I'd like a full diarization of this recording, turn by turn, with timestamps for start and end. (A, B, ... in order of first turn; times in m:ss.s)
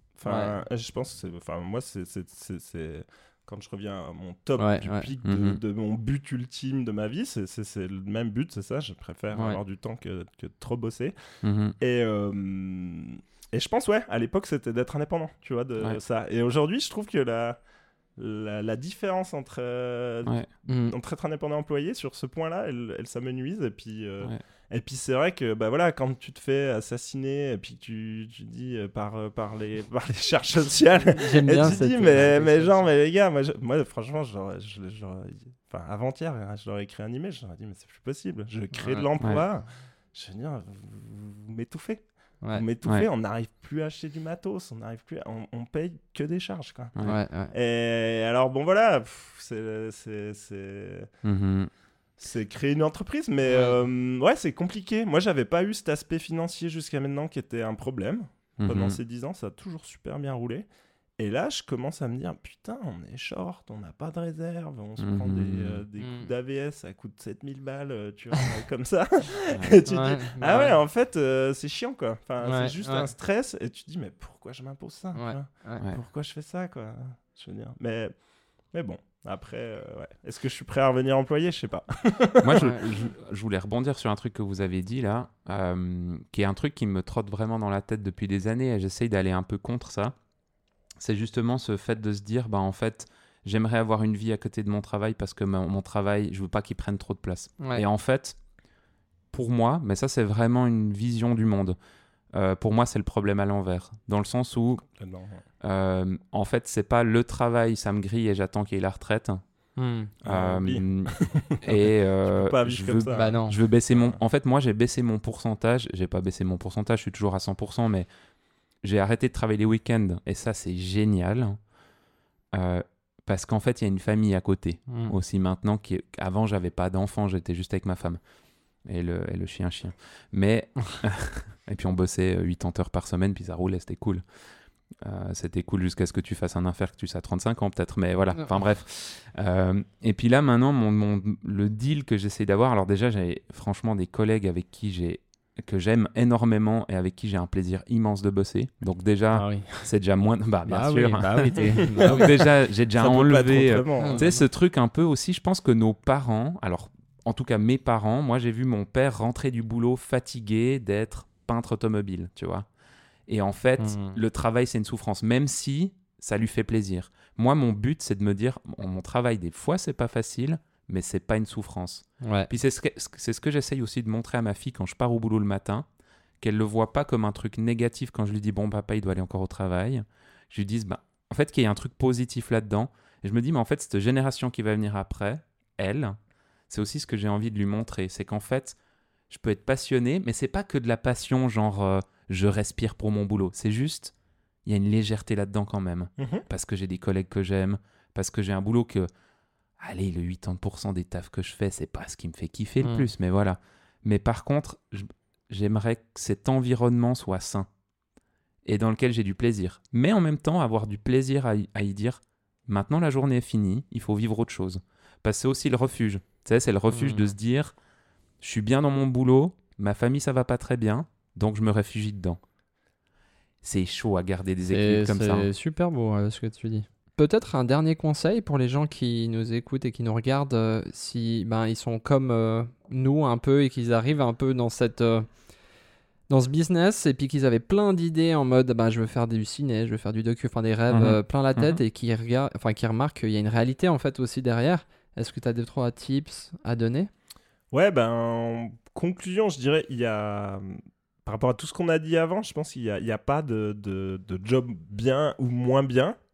0:00.2-0:11.1 A
0:00.2-0:00.5 B
0:04.6-0:05.1 B
0:05.2-0:05.6 C
0:09.3-0:09.6 B
0:11.4-0:11.8 C
0:11.8-0:17.6 A
0:18.2-0:47.0 A
0:20.7-0:21.0 B
0:31.1-0:32.8 B
0:38.8-0:39.1 B
0:47.0-0:47.5 B
0:47.5-0:51.1 A
0:51.2-0:51.7 C
0:52.2-1:00.7 A
0:53.5-0:53.8 B
0:58.6-0:59.0 C
1:01.2-1:18.2 A
1:05.0-1:05.8 C
1:06.0-1:06.3 B
1:09.5-1:09.8 C
1:09.9-1:10.8 B
1:12.4-1:13.1 B
1:15.1-1:15.8 B
1:18.7-1:23.0 A
1:22.4-1:30.2 C
1:22.6-1:22.9 B
1:31.0-1:38.4 C
1:39.3-1:41.8 C
1:42.3-1:44.8 C
1:44.9-1:45.4 A
1:45.6-1:49.4 C
1:49.8-1:50.1 B
1:50.2-1:58.1 C
1:50.2-1:54.2 A
1:53.1-1:53.6 B
1:58.8-2:01.6 C
2:02.5-2:08.2 C
2:04.9-2:05.2 B
2:08.8-2:14.2 C
2:15.0-2:42.7 C
2:29.3-2:29.9 B
2:30.6-2:32.3 B
2:32.0-2:34.4 A
2:34.0-2:34.4 B
2:43.3-2:55.9 C
2:43.8-2:44.2 B
2:52.2-2:52.5 B
2:56.4-3:06.2 C
3:06.7-3:08.8 C
3:09.3-3:14.1 C
3:14.6-3:19.1 C
3:16.2-3:16.4 A
3:19.8-3:27.7 C
3:22.8-3:23.1 B
3:28.6-3:37.8 C
3:36.9-3:37.3 B
3:38.4-3:42.4 C
3:43.6-3:45.5 C
3:44.7-3:55.3 B
3:56.3-4:07.1 B
4:00.9-4:01.8 C
4:07.7-4:16.2 A